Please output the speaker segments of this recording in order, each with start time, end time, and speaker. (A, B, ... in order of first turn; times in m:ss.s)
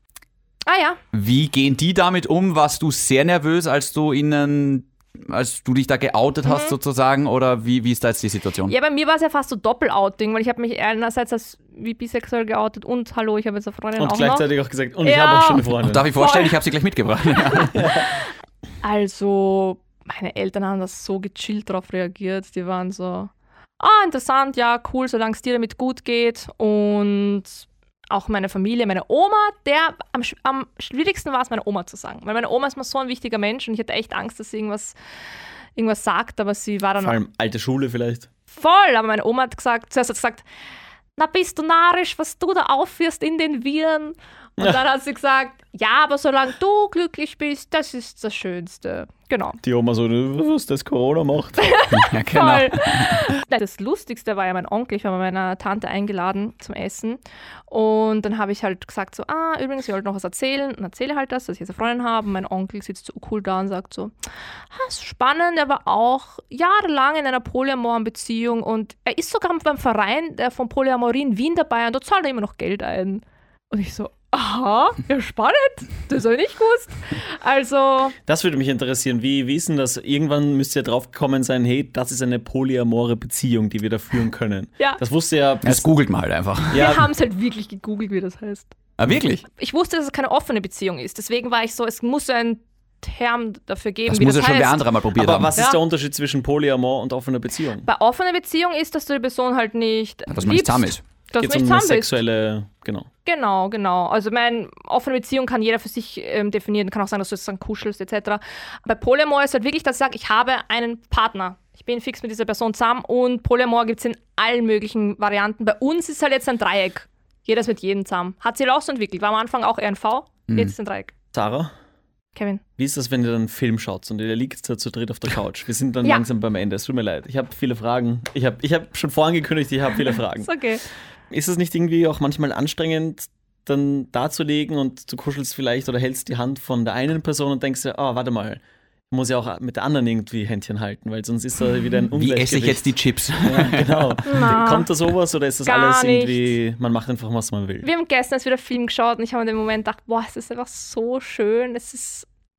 0:00.6-0:01.0 A
0:01.1-0:08.7 B
0:06.5-0:06.7 A
0:08.7-0:14.5 A
0:14.0-0:16.1 C
0:15.0-0:15.6 A
0:15.7-0:18.0 B
0:16.2-0:16.5 A
0:17.7-0:18.0 C
0:17.9-0:18.3 A
0:18.8-0:34.9 A
0:35.8-0:37.2 A
0:37.0-0:38.3 C
0:38.5-0:40.4 A
0:41.2-0:49.6 A
0:49.6-0:51.7 C
0:51.6-1:04.1 A
0:51.9-0:53.2 B
1:04.7-1:18.1 A
1:18.2-1:25.9 C
1:25.6-1:26.9 B
1:26.7-1:28.7 A
1:26.7-1:27.1 C
1:29.0-1:29.4 B
1:29.4-1:34.9 A
1:34.1-1:35.5 B
1:35.1-1:37.9 C
1:37.8-1:42.1 A
1:40.3-1:41.0 B
1:41.4-1:43.1 C
1:43.2-2:01.1 A
2:01.3-2:01.7 C
2:02.3-2:02.6 A
2:02.8-2:10.5 C
2:10.4-2:10.8 A
2:11.3-2:27.9 C
2:22.1-2:24.5 B
2:24.2-2:24.9 A
2:25.6-2:26.6 A
2:27.8-2:32.3 A